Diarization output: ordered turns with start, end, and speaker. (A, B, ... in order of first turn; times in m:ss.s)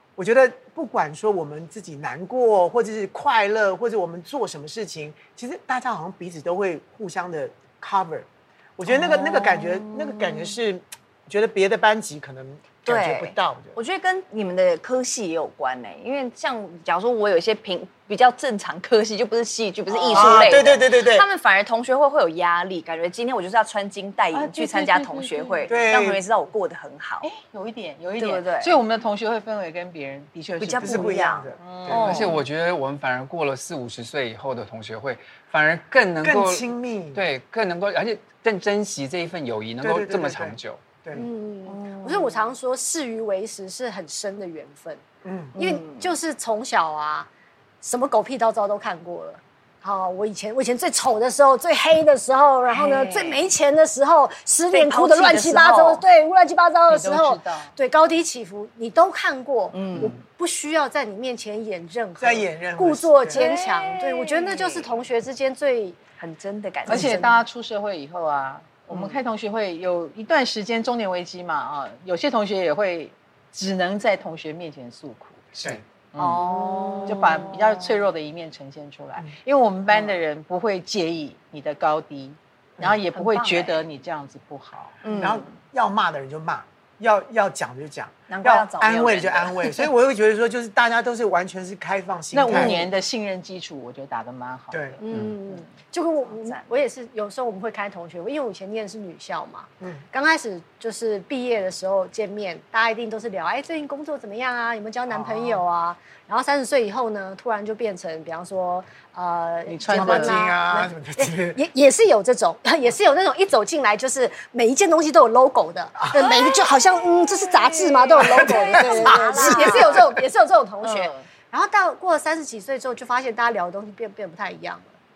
0:00.2-0:13.8 A
0:09.0-0:10.5 B
0:12.9-0:27.3 B
0:19.9-0:20.7 C
0:20.1-0:21.3 A
0:24.3-0:25.8 C
0:25.7-0:26.2 A
0:27.2-0:32.4 C
0:28.2-0:28.8 B
0:30.6-0:32.4 B
0:30.8-0:32.2 A
0:31.9-0:40.8 D
0:36.2-0:37.3 A
0:39.8-0:41.3 A
0:41.1-0:45.0 E
0:41.7-0:42.4 B
0:45.2-0:45.5 A
0:45.6-0:46.2 B
0:45.6-0:47.3 E
0:47.8-1:06.0 E
0:52.7-0:53.5 B
0:54.7-0:56.0 B
0:56.9-0:57.8 C
0:59.7-1:00.2 B
1:02.2-1:03.4 A
1:03.3-1:04.9 B
1:06.2-1:07.3 B
1:06.9-1:15.5 C
1:06.9-1:07.4 E
1:08.9-1:09.2 B
1:15.6-1:15.8 D
1:16.1-1:16.5 C
1:16.2-1:17.9 B
1:16.6-1:17.2 E
1:17.1-1:25.5 C
1:23.1-1:23.8 B
1:25.0-1:25.5 B
1:25.2-1:32.9 A
1:28.3-1:29.9 B
1:32.3-1:35.0 C
1:34.7-1:35.0 A
1:35.0-2:04.9 E
1:36.3-1:36.7 B
1:45.1-1:45.6 A
1:49.7-1:50.4 C
1:49.9-1:51.6 A
1:57.3-2:00.1 B
1:58.2-2:00.2 A
2:00.8-2:01.2 B